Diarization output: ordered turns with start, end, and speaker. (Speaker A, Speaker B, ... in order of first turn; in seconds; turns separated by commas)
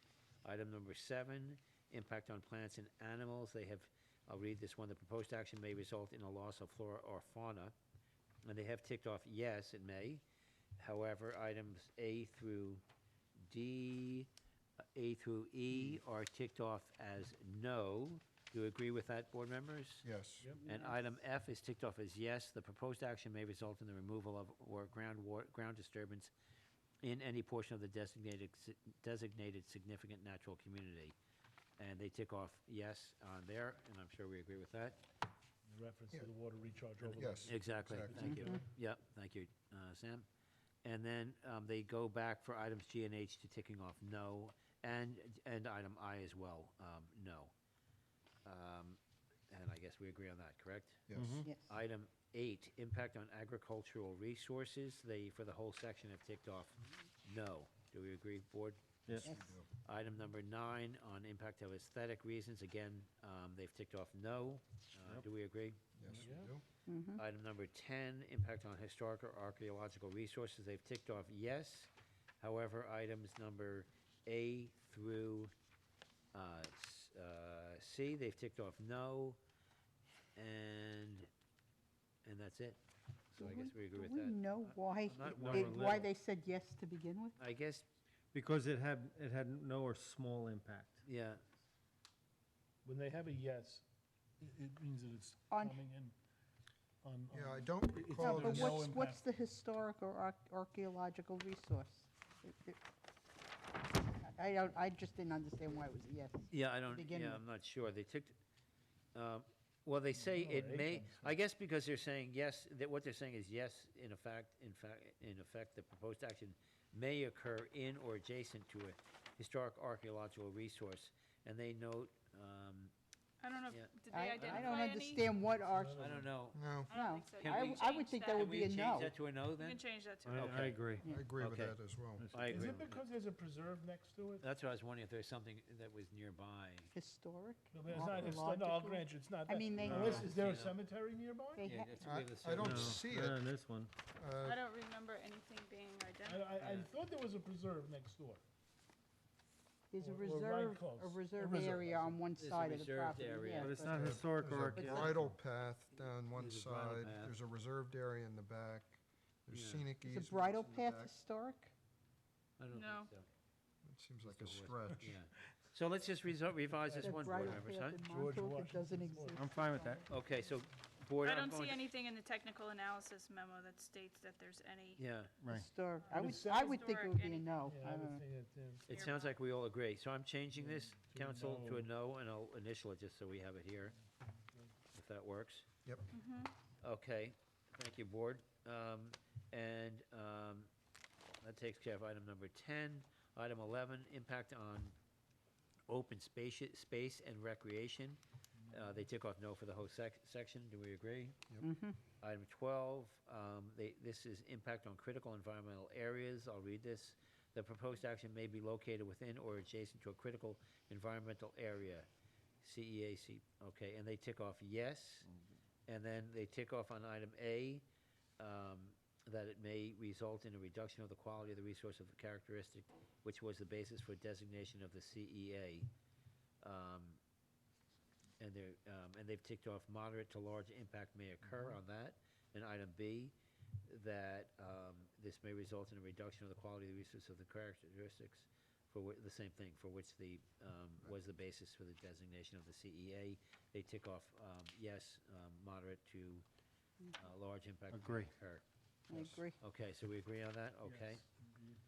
Speaker A: 0.4-7.7, Speaker A: 8.4-10.2, Speaker A: 10.8-12.8, Speaker A: 13.4-14.3, Speaker A: 14.9-20.1, Speaker B: 20.0-20.5, Speaker A: 20.6-26.3, Speaker A: 27.0-31.1, Speaker A: 31.8-35.0, Speaker C: 35.7-38.6, Speaker B: 37.0-38.3, Speaker A: 37.5-40.2, Speaker D: 38.2-38.6, Speaker A: 40.8-47.5, Speaker A: 48.4-49.0, Speaker A: 49.5-65.8, Speaker B: 51.1-51.4, Speaker E: 51.1-51.5, Speaker D: 51.4-51.7, Speaker E: 59.1-59.3, Speaker D: 59.2-59.6, Speaker B: 59.3-59.7, Speaker B: 66.0-66.6, Speaker C: 66.2-66.5, Speaker D: 66.9-67.2, Speaker A: 67.1-75.5, Speaker A: 76.3-79.4, Speaker A: 80.3-81.3, Speaker A: 82.2-82.8, Speaker A: 83.3-86.1, Speaker D: 83.4-87.4, Speaker E: 85.3-86.0, Speaker A: 87.4-87.8, Speaker E: 88.3-91.0, Speaker A: 91.0-91.4, Speaker C: 92.8-93.8, Speaker C: 94.4-96.1, Speaker D: 95.5-95.8, Speaker C: 97.0-99.3, Speaker B: 97.3-98.7, Speaker A: 98.2-98.7, Speaker D: 98.2-102.8, Speaker D: 104.2-107.4, Speaker A: 106.5-108.3, Speaker A: 109.1-122.9, Speaker C: 110.1-111.3, Speaker F: 123.4-125.2, Speaker A: 123.7-124.9, Speaker D: 124.1-126.1, Speaker C: 125.5-126.3, Speaker A: 126.0-130.8, Speaker B: 126.5-126.9, Speaker D: 126.9-129.1, Speaker F: 126.9-130.7, Speaker E: 130.2-131.1, Speaker D: 131.0-131.3, Speaker B: 131.1-132.2, Speaker A: 131.4-131.8, Speaker E: 132.2-132.6, Speaker A: 132.3-133.0, Speaker C: 132.4-134.4, Speaker A: 134.4-136.9, Speaker D: 136.9-140.3, Speaker C: 137.7-141.7, Speaker E: 139.8-140.2, Speaker A: 139.8-140.8, Speaker D: 141.5-142.0, Speaker A: 141.6-143.0, Speaker B: 142.0-143.4, Speaker E: 142.6-143.9, Speaker B: 144.1-144.6, Speaker F: 144.4-146.6, Speaker C: 146.2-148.4, Speaker A: 146.6-146.9, Speaker D: 149.9-154.2, Speaker C: 150.0-152.2, Speaker A: 152.3-153.9, Speaker E: 153.6-155.2, Speaker B: 154.0-161.1, Speaker A: 156.3-157.3, Speaker A: 159.5-159.9, Speaker D: 160.0-161.7, Speaker A: 162.6-163.3, Speaker F: 162.7-163.1, Speaker B: 163.8-165.1, Speaker A: 164.2-168.0, Speaker C: 166.7-169.5, Speaker D: 167.0-170.1, Speaker E: 169.3-170.1, Speaker A: 170.1-171.8, Speaker F: 171.2-175.0, Speaker A: 175.0-175.3, Speaker E: 175.4-175.7, Speaker D: 175.5-178.2, Speaker F: 176.0-177.7, Speaker C: 176.1-176.8, Speaker C: 177.6-178.9, Speaker A: 178.9-183.9, Speaker F: 178.9-179.3, Speaker C: 180.6-181.9, Speaker C: 184.2-184.7, Speaker A: 184.9-185.7, Speaker F: 186.1-186.5, Speaker A: 186.8-190.7, Speaker A: 191.4-194.9, Speaker A: 195.9-201.4, Speaker D: 201.6-202.0, Speaker A: 202.2-212.1, Speaker A: 212.6-215.3, Speaker A: 215.9-217.8, Speaker A: 218.4-225.9, Speaker A: 226.6-227.2, Speaker A: 228.4-233.3, Speaker A: 233.8-246.4, Speaker A: 247.2-248.6, Speaker E: 247.9-248.3, Speaker D: 249.1-249.6, Speaker A: 249.6-251.2, Speaker C: 250.8-251.8